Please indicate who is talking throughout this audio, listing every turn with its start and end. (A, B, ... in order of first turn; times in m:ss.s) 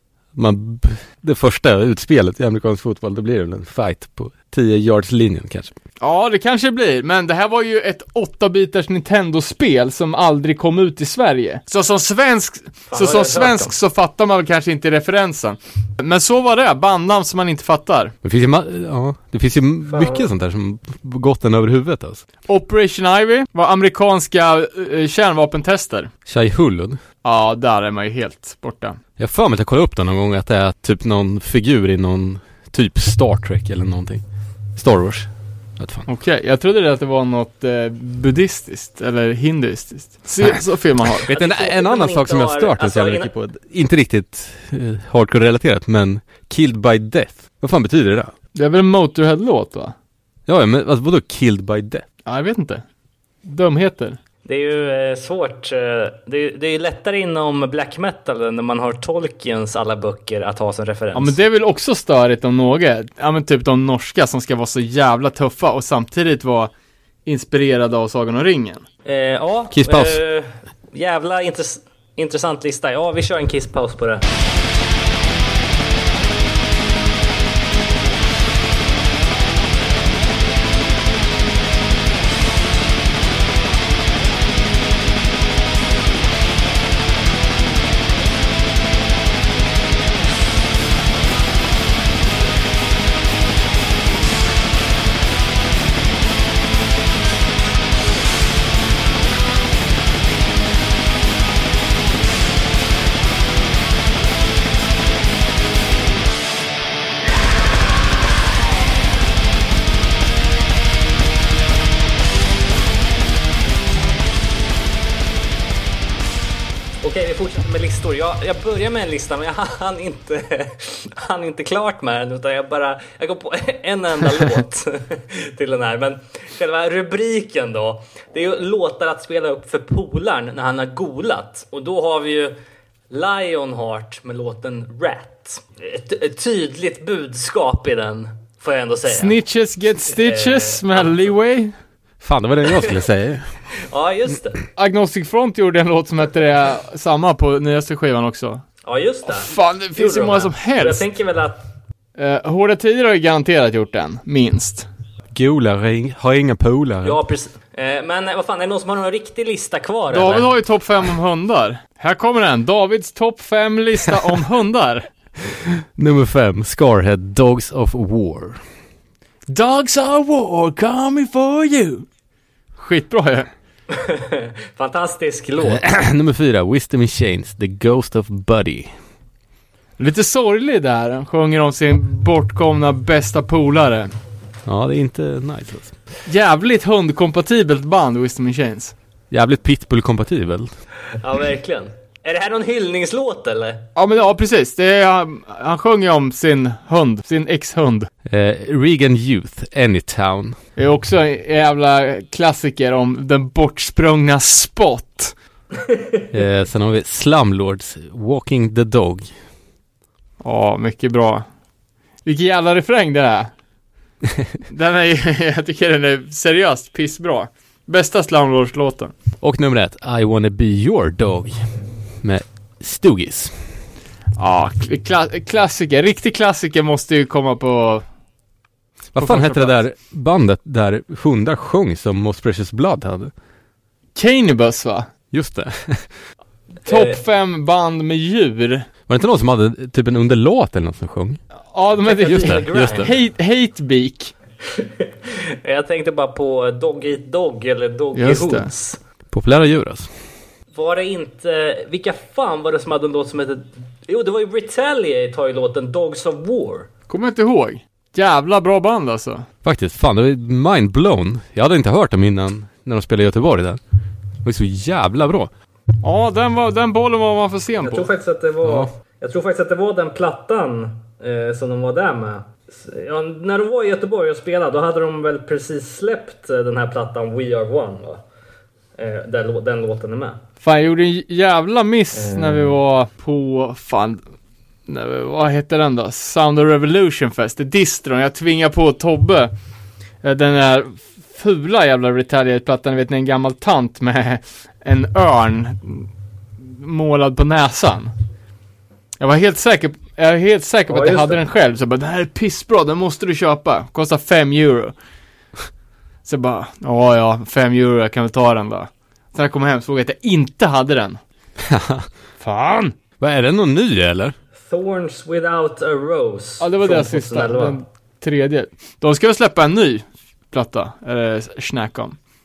0:00.3-0:05.7 A
0:06.0-0:18.1 B
0:12.9-0:13.7 C
0:18.2-0:22.2 A
0:19.9-0:20.3 C
0:22.5-0:26.1 B
0:26.3-0:27.0 A
0:27.2-0:29.0 B
0:29.2-0:34.2 A
0:34.7-0:36.0 A
0:36.1-0:41.2 B
0:41.2-0:48.3 A
0:41.3-0:43.3 C
0:48.5-0:49.9 B
0:50.5-0:52.0 A
0:52.2-0:52.8 B
0:53.4-0:54.2 B
0:54.4-1:01.4 C
1:01.1-1:06.7 B
1:07.2-1:08.8 B
1:09.0-1:14.2 C
1:09.7-1:10.2 A
1:57.0-2:12.5 C
2:13.1-2:19.3 C
2:19.1-2:21.7 B
2:20.2-2:21.1 C
2:22.2-2:23.7 A
2:23.8-2:24.6 C
2:24.8-2:28.6 B
2:28.8-2:31.7 C
2:29.3-2:31.0 B
2:32.2-2:34.9 B
2:35.3-2:37.2 A
2:37.0-2:40.5 C
2:40.1-2:45.0 B
2:45.9-2:48.6 A
2:49.5-2:52.0 B
2:52.8-2:53.5 B
2:53.9-2:55.8 C
2:55.6-2:59.0 A
3:00.0-3:04.1 B
3:04.6-3:05.9 A
3:06.2-3:08.9 B
3:09.3-3:10.7 A
3:11.2-3:13.8 C
3:14.0-3:18.1 B
3:18.2-3:20.6 A
3:20.8-3:25.3 B
3:26.3-3:29.3 A
3:30.4-3:31.4 B
3:32.2-3:33.5 B
3:34.7-3:39.1 B
3:39.4-3:43.8 A
3:44.4-3:48.0 B
3:49.1-3:53.3 A
3:49.2-3:49.8 B
3:54.1-3:55.1 B
3:55.3-3:56.2 A
3:56.8-3:58.9 B
3:56.9-3:57.2 C
3:59.1-4:01.4 A
4:01.7-4:04.3 B
4:02.0-4:03.2 C
4:02.3-4:03.1 A
4:04.8-4:09.0 C
4:08.2-4:08.7 B
4:09.3-4:10.1 A
4:10.7-4:16.9 C
4:17.1-4:19.5 B
4:19.6-4:23.8 A
4:24.4-4:25.5 A
4:26.0-4:28.1 B
4:27.8-4:38.2 C
4:28.6-4:28.9 A
4:39.0-4:40.4 C
4:40.6-4:44.2 B
4:42.1-4:42.7 C
4:44.9-4:49.5 B
4:50.2-4:56.1 B
4:56.6-4:58.1 B
4:59.2-5:04.9 B
5:00.9-5:01.4 C
5:06.2-5:11.2 B
5:11.6-5:12.1 A
5:12.4-5:12.9 B
5:13.2-5:14.3 A
5:14.6-5:17.7 C
5:16.6-5:22.2 B